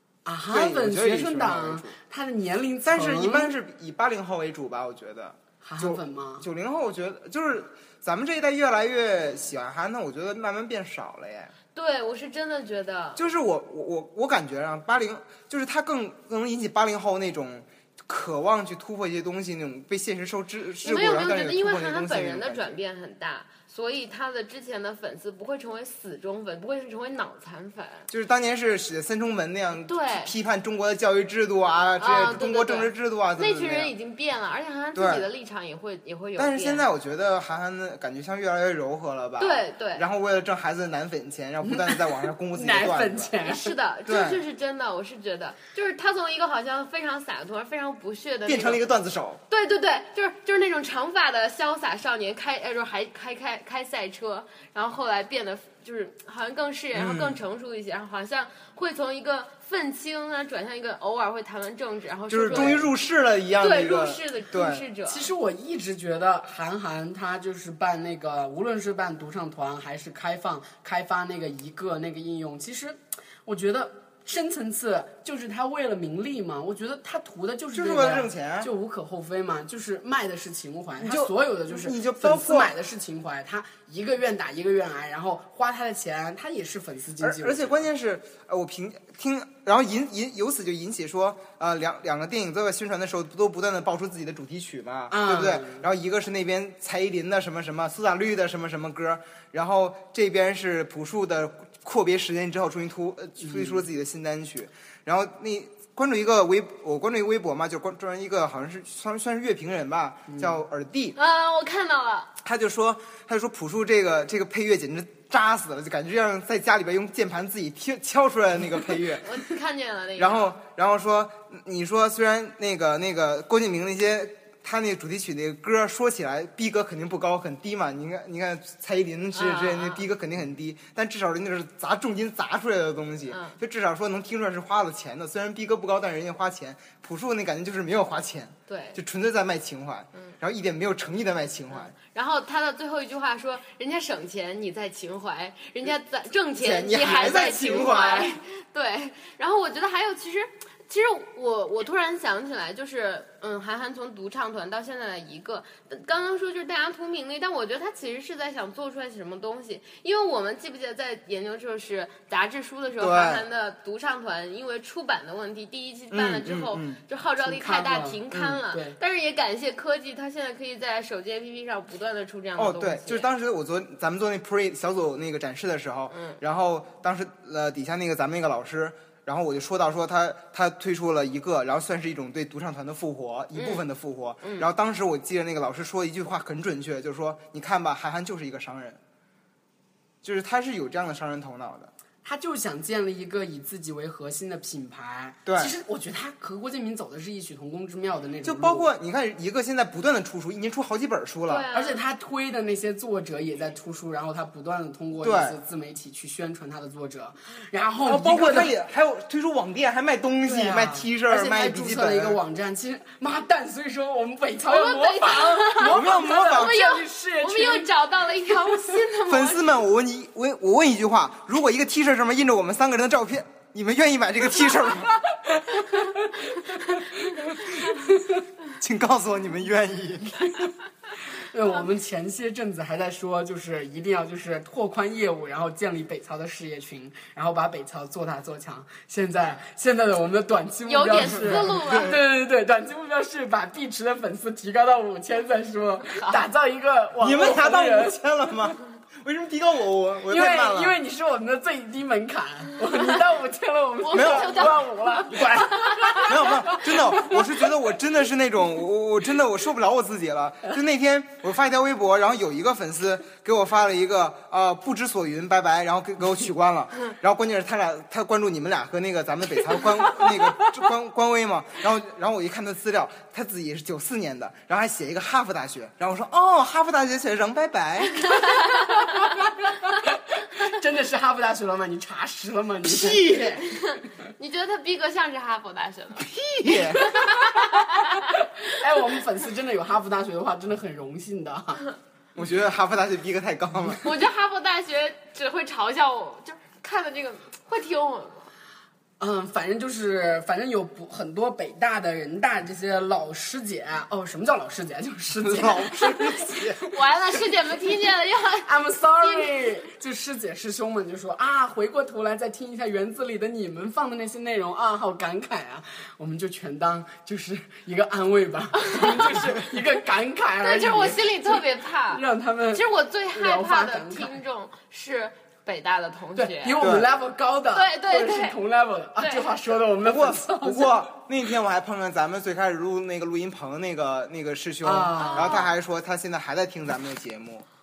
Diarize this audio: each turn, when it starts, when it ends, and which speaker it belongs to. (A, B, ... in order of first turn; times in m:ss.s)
0:00.2-0:03.5 A
0:00.5-0:02.0 B
0:02.8-0:11.5 B
0:05.6-0:06.5 A
0:11.8-0:13.2 C
0:13.2-0:22.8 B
0:20.8-0:28.1 C
0:28.1-0:33.9 B
0:29.9-0:30.3 C
0:32.0-0:36.9 C
0:35.0-0:35.3 B
0:36.4-0:43.4 B
0:39.4-0:40.0 C
0:41.6-0:43.7 A
0:43.4-0:48.8 C
0:44.1-0:44.4 B
0:48.5-0:49.4 B
0:49.5-1:02.9 C
0:56.9-0:57.4 B
1:02.3-1:04.9 B
1:03.6-1:05.3 C
1:05.1-1:27.8 A
1:17.7-1:18.7 B
1:21.0-1:22.7 B
1:27.2-1:51.2 B
1:35.1-1:35.8 A
1:43.4-1:43.8 A
1:50.3-1:50.6 A
1:51.2-1:52.3 C
1:52.4-1:59.3 B
1:59.1-2:00.5 C
2:00.2-2:21.9 B
2:09.3-2:10.0 C
2:13.3-2:13.6 C
2:18.7-2:19.0 C
2:21.7-2:53.3 C
2:26.6-2:28.4 B
2:43.0-2:43.4 B
2:46.1-2:47.0 B
2:47.4-2:49.0 A
2:48.3-2:48.6 B
2:52.6-3:09.0 B
2:56.1-2:56.4 C
3:03.6-3:03.8 C
3:04.4-3:04.7 C
3:10.2-3:11.9 B
3:12.2-3:18.9 A
3:15.5-3:15.7 B
3:18.4-3:21.7 B
3:21.5-3:22.0 C
3:21.7-3:28.7 A
3:25.2-3:25.6 B
3:28.0-3:32.4 B
3:30.4-3:37.9 A
3:34.7-3:39.7 C
3:35.8-3:36.8 B
3:39.3-3:45.2 B
3:45.4-3:48.4 A
3:48.8-3:50.7 B
3:51.4-4:08.2 A
4:00.9-4:02.2 C
4:01.3-4:02.2 B
4:06.1-4:06.4 C
4:07.2-4:11.0 B
4:10.3-4:17.4 A
4:14.0-4:16.5 C
4:14.1-4:14.8 B
4:15.3-4:38.3 B
4:38.2-4:39.2 C
4:40.0-4:43.3 A
4:42.9-4:48.4 C
4:46.2-4:47.6 B
4:48.6-4:51.9 A
4:52.4-4:54.0 B
4:54.0-4:58.5 C
4:59.2-5:06.4 A
5:05.4-5:06.9 B
5:06.8-5:08.7 C
5:08.6-5:21.6 A
5:09.2-5:09.7 C
5:18.8-5:19.5 C
5:20.6-5:26.8 C
5:22.1-5:24.4 A
5:26.4-5:31.1 A
5:26.8-5:27.1 B
5:27.7-5:28.6 C
5:29.2-5:29.6 C
5:30.0-5:37.7 B
5:34.8-5:35.6 A
5:35.2-5:35.7 C